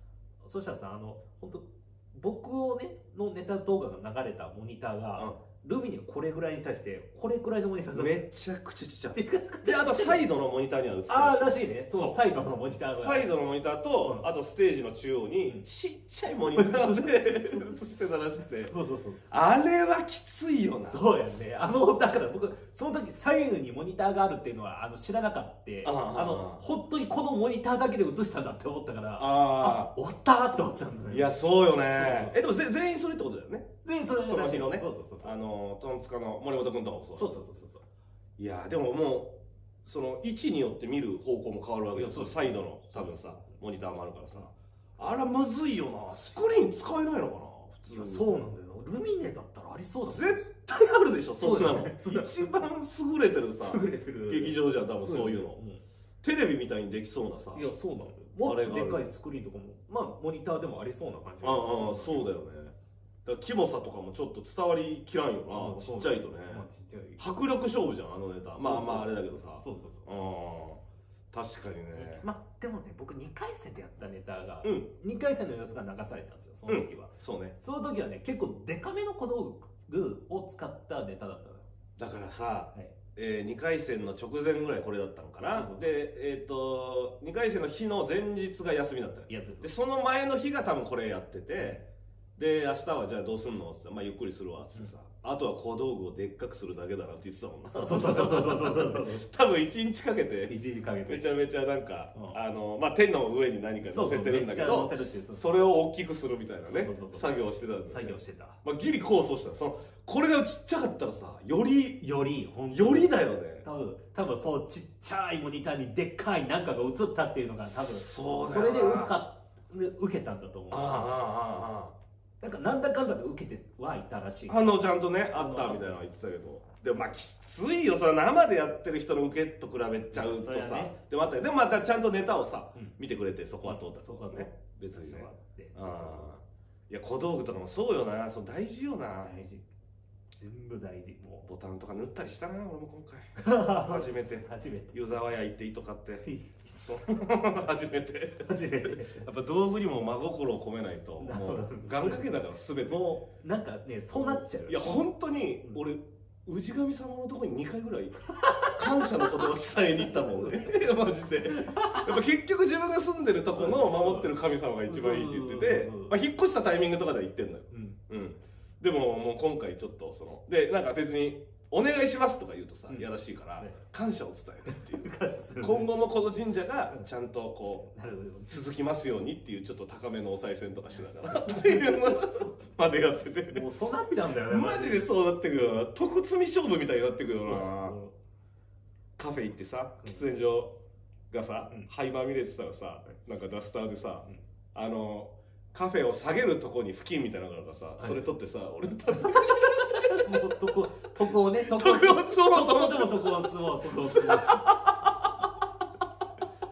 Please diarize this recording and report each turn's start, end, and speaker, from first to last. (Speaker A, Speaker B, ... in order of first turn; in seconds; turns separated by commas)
Speaker A: 0.4-8.2, Speaker B: 7.9-12.2, Speaker A: 9.1-10.3, Speaker A: 11.1-13.3, Speaker B: 12.9-18.7, Speaker A: 16.6-17.7, Speaker A: 18.6-19.2, Speaker B: 19.3-21.0, Speaker A: 20.9-31.3, Speaker B: 25.8-26.6, Speaker B: 29.2-29.9, Speaker B: 31.1-37.4, Speaker A: 31.9-32.4, Speaker A: 33.8-35.4, Speaker A: 37.1-37.8, Speaker B: 38.4-39.3, Speaker B: 39.8-48.2, Speaker A: 41.9-43.4, Speaker A: 47.9-50.4, Speaker B: 50.0-55.6, Speaker A: 51.4-52.6, Speaker A: 53.6-55.8, Speaker B: 56.2-57.7, Speaker A: 57.5-62.3, Speaker B: 58.4-59.0, Speaker B: 61.4-66.7, Speaker A: 65.5-67.2, Speaker B: 67.2-70.8, Speaker A: 68.6-70.1, Speaker B: 71.3-72.2, Speaker A: 71.9-81.7, Speaker B: 74.6-74.9, Speaker B: 76.7-77.5, Speaker B: 82.0-91.8, Speaker A: 85.5-85.9, Speaker A: 89.3-89.7, Speaker A: 91.6-91.8, Speaker B: 92.4-100.5, Speaker A: 97.7-99.2, Speaker A: 100.5-101.2, Speaker B: 101.1-112.0, Speaker A: 103.8-105.5, Speaker A: 106.6-108.6, Speaker A: 112.0-121.2, Speaker B: 112.7-113.6, Speaker B: 117.8-119.2, Speaker B: 120.7-121.9, Speaker A: 122.4-124.7, Speaker B: 124.5-139.3, Speaker A: 125.3-126.0, Speaker A: 130.1-130.9, Speaker A: 133.6-136.3, Speaker A: 139.2-139.6, Speaker A: 140.3-141.5, Speaker B: 141.4-146.3, Speaker A: 143.3-145.0, Speaker A: 146.2-147.0, Speaker B: 146.8-153.0, Speaker A: 148.4-149.3, Speaker A: 151.2-152.3, Speaker A: 152.8-155.1, Speaker B: 154.1-177.9, Speaker A: 158.3-162.2, Speaker A: 163.5-164.3, Speaker A: 164.9-166.2, Speaker A: 167.7-168.0, Speaker A: 172.9-173.8, Speaker A: 174.7-175.9, Speaker A: 177.8-178.6, Speaker B: 178.5-183.7, Speaker A: 181.1-182.4, Speaker A: 183.5-185.8, Speaker B: 184.3-187.9, Speaker A: 187.4-188.1, Speaker B: 189.2-190.7, Speaker B: 191.3-200.5, Speaker A: 198.0-198.3, Speaker A: 199.1-204.7, Speaker B: 201.6-205.3